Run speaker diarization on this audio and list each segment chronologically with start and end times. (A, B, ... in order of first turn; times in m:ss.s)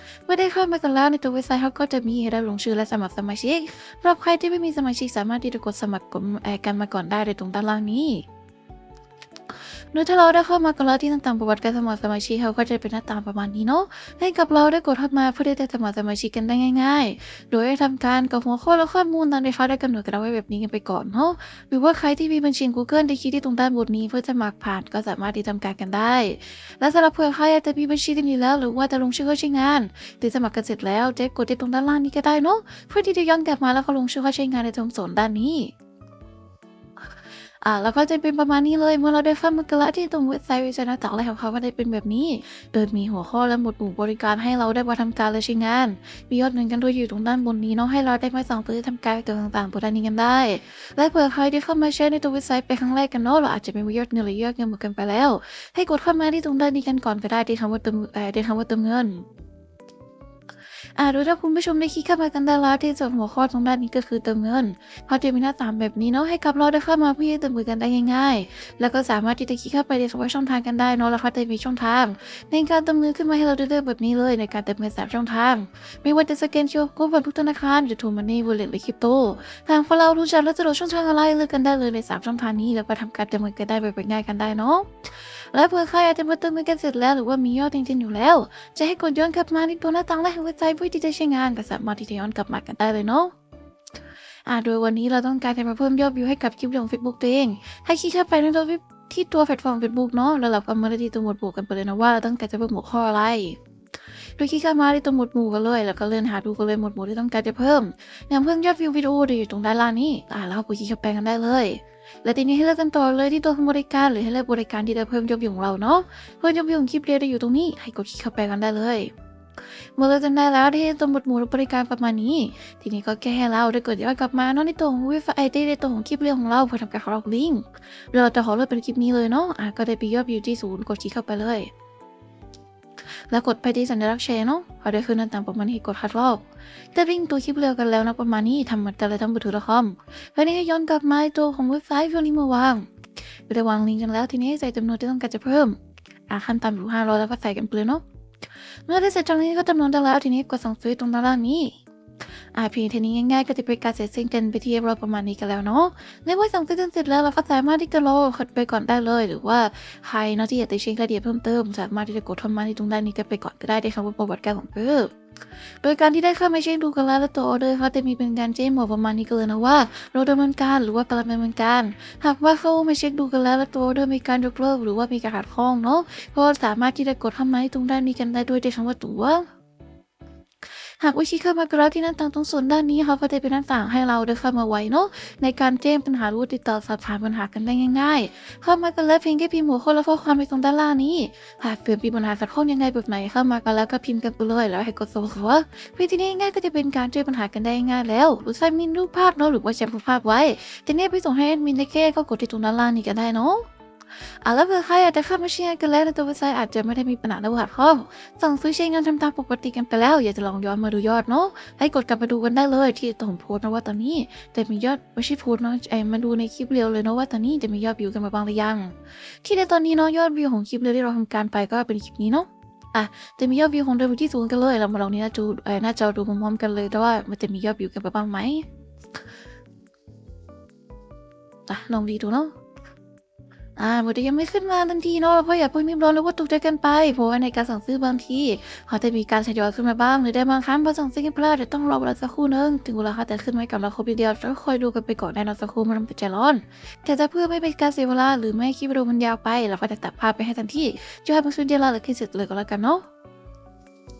0:00.3-0:08.3 A
0:09.9-0:35.8 A
0:37.6-0:59.2 A
1:01.0-1:33.3 A
1:34.5-1:43.6 A
1:44.4-1:59.1 A
2:00.0-2:11.7 A
2:13.3-2:22.9 A
2:23.5-2:28.0 A
2:28.9-2:31.8 A
2:32.5-2:45.1 A
2:45.8-2:59.5 A
3:01.0-3:23.7 A
3:24.4-3:48.7 A
3:51.7-3:52.5 A
3:53.8-4:13.0 A